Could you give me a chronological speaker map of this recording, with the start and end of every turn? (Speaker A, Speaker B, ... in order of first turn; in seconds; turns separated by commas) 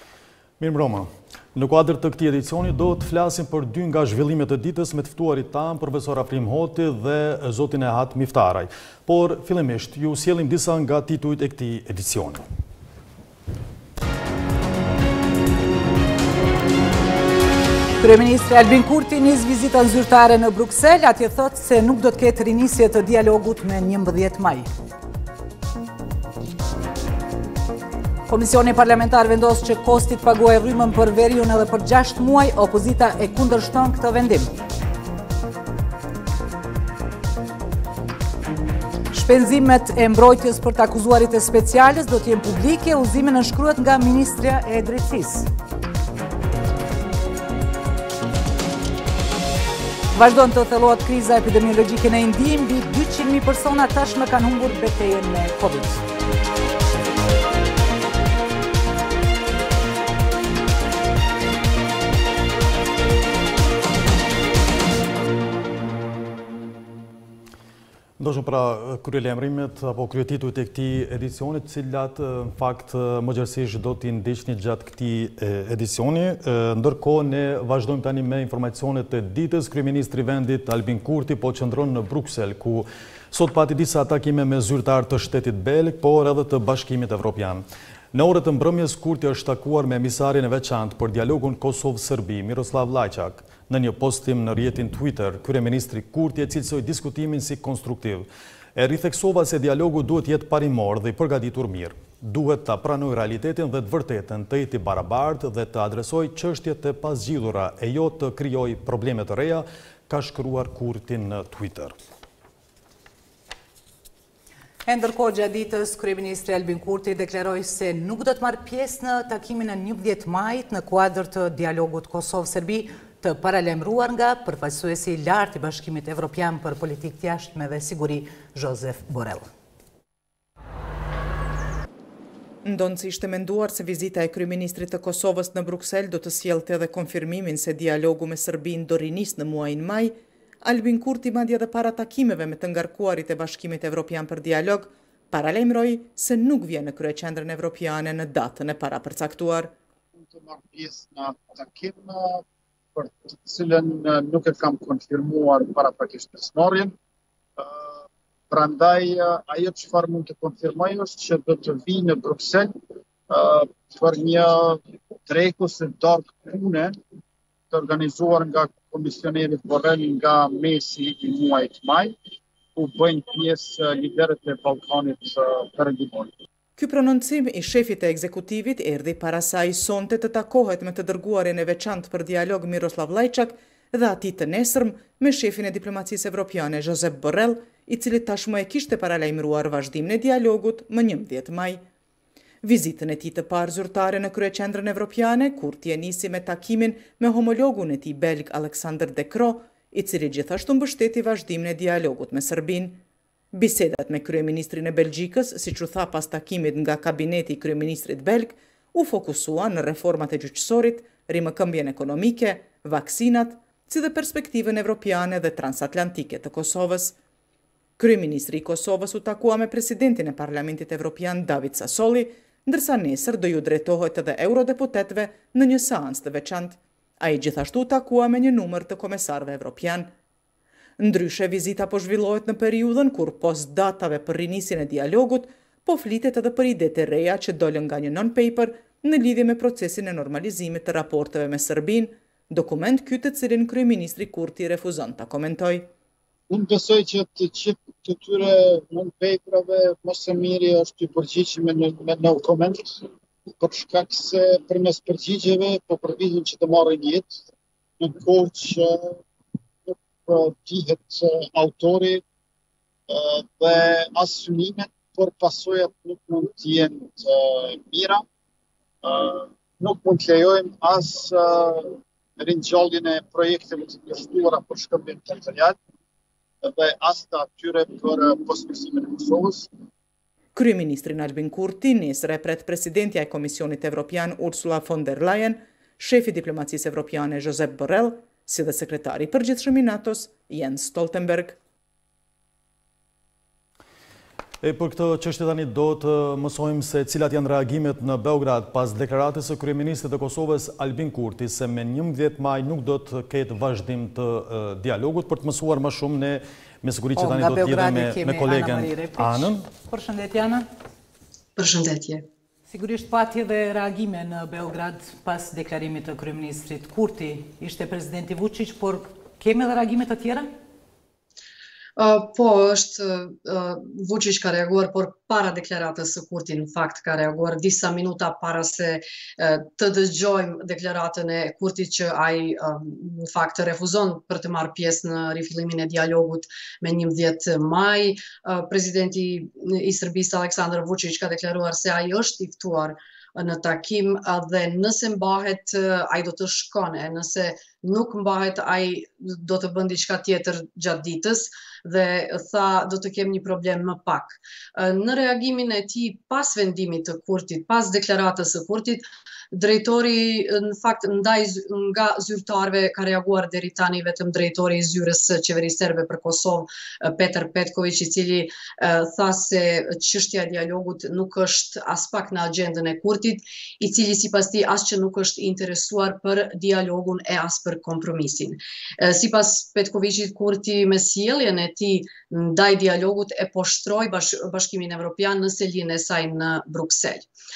Speaker A: 0.6-12.4, Speaker B: 18.0-24.7, Speaker B: 28.3-34.5, Speaker B: 39.1-45.5, Speaker B: 50.1-56.0, Speaker A: 68.2-112.0, Speaker B: 114.9-129.5, Speaker C: 132.6-149.7, Speaker D: 150.2-152.4, Speaker D: 152.9-156.9, Speaker D: 157.6-158.0, Speaker D: 158.5-162.7, Speaker D: 163.3-167.0, Speaker D: 167.7-172.2, Speaker D: 172.8-176.3, Speaker C: 176.8-191.8, Speaker C: 192.6-203.0, Speaker C: 203.5-217.2, Speaker C: 218.0-230.1, Speaker C: 231.0-245.9, Speaker D: 246.5-257.4, Speaker D: 258.0-259.2, Speaker D: 259.9-262.2, Speaker D: 263.1-268.2, Speaker D: 269.0-275.8, Speaker D: 276.6-279.7, Speaker C: 280.6-291.6, Speaker A: 294.6-309.7, Speaker B: 307.2-310.6, Speaker E: 311.6-312.2, Speaker B: 312.7-320.5, Speaker E: 322.0-387.3